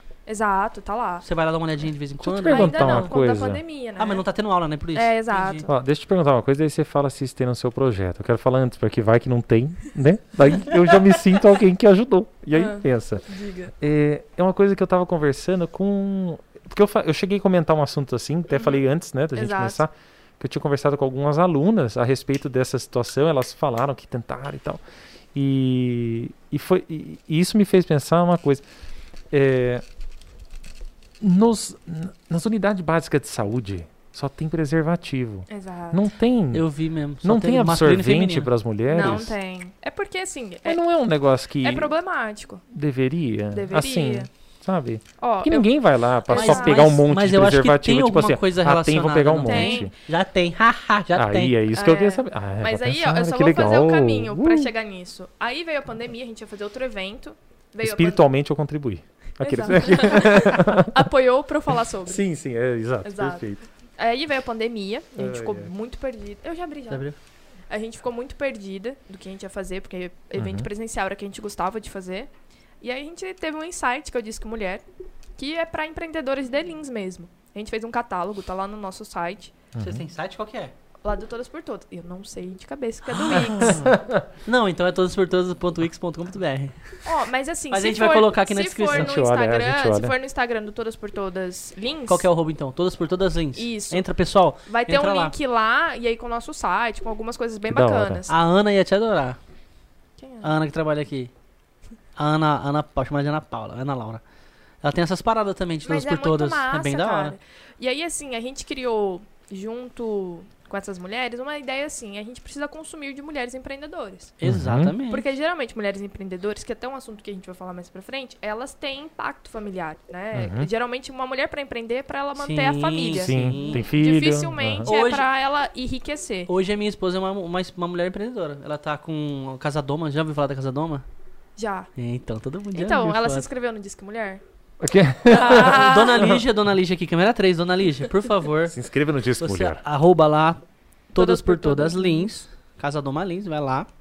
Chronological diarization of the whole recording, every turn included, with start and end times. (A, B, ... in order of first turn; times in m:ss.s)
0:00.3-0:01.2 A
0:01.2-0:03.1 B
0:02.2-0:03.6 C
0:02.4-0:04.2 A
0:04.0-0:05.7 B
0:04.9-0:05.7 A
0:05.7-0:24.8 C
0:12.5-0:13.7 A
0:18.5-0:18.8 A
0:19.4-0:19.8 A
0:25.3-0:28.6 C
0:29.3-0:29.8 C
0:31.2-0:36.7 C
0:35.5-0:36.0 A
0:36.5-0:38.5 B
0:37.2-0:39.4 C
0:38.9-0:40.8 A
0:40.6-0:41.9 C
0:41.6-0:42.6 A
0:42.7-0:49.9 C
0:43.5-0:44.3 A
0:45.2-0:47.0 A
0:46.3-0:51.6 B
0:49.4-0:49.9 A
0:51.1-0:54.7 C
0:51.7-0:58.2 A
0:57.8-1:01.0 C
0:59.4-1:02.2 A
1:02.0-1:03.6 C
1:03.0-1:03.4 A
1:04.0-1:07.0 A
1:05.1-1:05.7 C
1:06.9-1:07.2 B
1:07.7-1:12.3 A
1:10.4-1:10.7 C
1:12.8-1:14.8 A
1:15.4-1:19.5 A
1:19.7-1:20.0 C
1:19.8-1:20.7 B
1:21.0-1:23.9 A
1:23.2-1:27.1 B
1:23.6-1:24.2 C
1:27.0-1:32.3 A
1:27.7-1:29.1 B
1:28.9-1:30.1 C
1:32.1-1:35.3 B
1:33.5-1:34.1 A
1:34.6-1:38.4 A
1:37.7-1:38.2 C
1:38.3-1:39.4 B
1:40.2-1:40.5 A
1:40.4-1:41.3 B
1:42.2-1:44.2 B
1:44.8-1:47.3 B
1:45.8-1:54.3 A
1:54.4-1:55.2 B
1:54.4-1:55.0 C
1:55.1-2:06.5 A
2:00.3-2:00.7 C
2:02.4-2:03.8 B
2:03.2-2:04.9 C
2:04.8-2:05.3 B
2:06.5-2:11.0 B
2:11.6-2:11.9 A
2:12.0-2:13.4 B
2:12.7-2:14.4 A
2:14.8-2:16.4 C
2:15.3-2:16.4 A
2:15.4-2:18.8 B
2:18.7-2:19.8 C
2:19.4-2:23.9 B
2:21.1-2:22.4 A